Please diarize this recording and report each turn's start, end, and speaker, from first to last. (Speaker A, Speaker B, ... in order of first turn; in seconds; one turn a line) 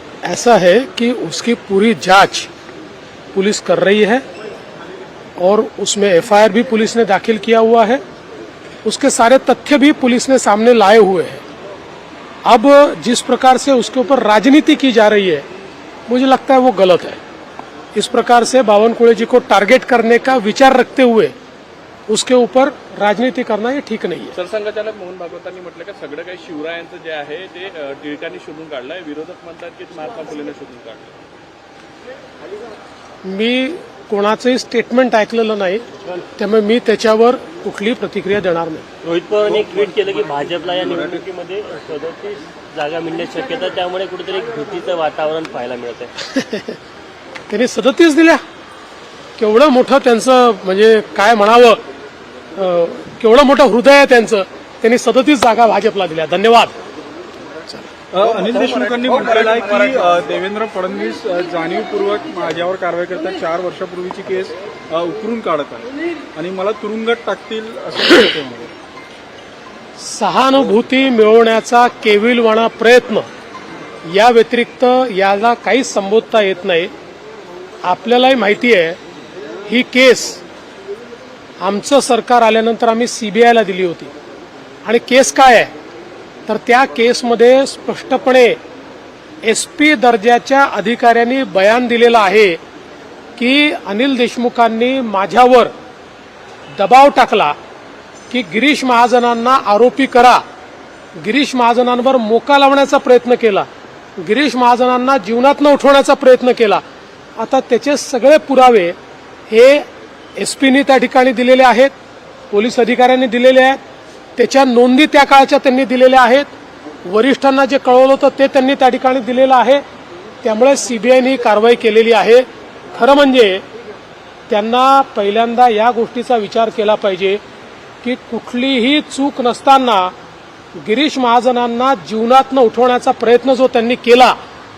Speaker A: 0.2-2.5
Speaker A: 3.3-4.2
Speaker A: 5.4-8.0
Speaker A: 8.8-11.4
Speaker A: 12.4-15.5
Speaker A: 16.1-17.2
Speaker A: 17.9-21.3
Speaker A: 22.1-24.3
Speaker B: 24.4-31.2
Speaker A: 33.2-38.9
Speaker C: 39.0-46.1
Speaker A: 46.2-46.8
Speaker A: 47.5-48.4
Speaker A: 49.4-51.8
Speaker A: 52.6-56.8
Speaker D: 58.1-68.7
Speaker A: 70.0-73.3
Speaker A: 74.1-76.9
Speaker A: 77.8-79.0
Speaker A: 79.7-80.4
Speaker A: 81.6-84.1
Speaker A: 84.8-85.7
Speaker A: 86.5-88.6
Speaker A: 89.4-92.6
Speaker A: 93.4-95.7
Speaker A: 96.7-97.6
Speaker A: 98.3-100.4
Speaker A: 101.2-103.7
Speaker A: 104.2-106.8
Speaker A: 107.4-109.0
Speaker A: 109.5-109.8
Speaker A: 110.4-111.9
Speaker A: 112.5-113.8
Speaker A: 114.4-116.5
Speaker A: 117.0-119.8
Speaker A: 120.4-123.6
Speaker A: 124.5-127.4
Speaker A: 128.0-130.1
Speaker A: 130.8-134.4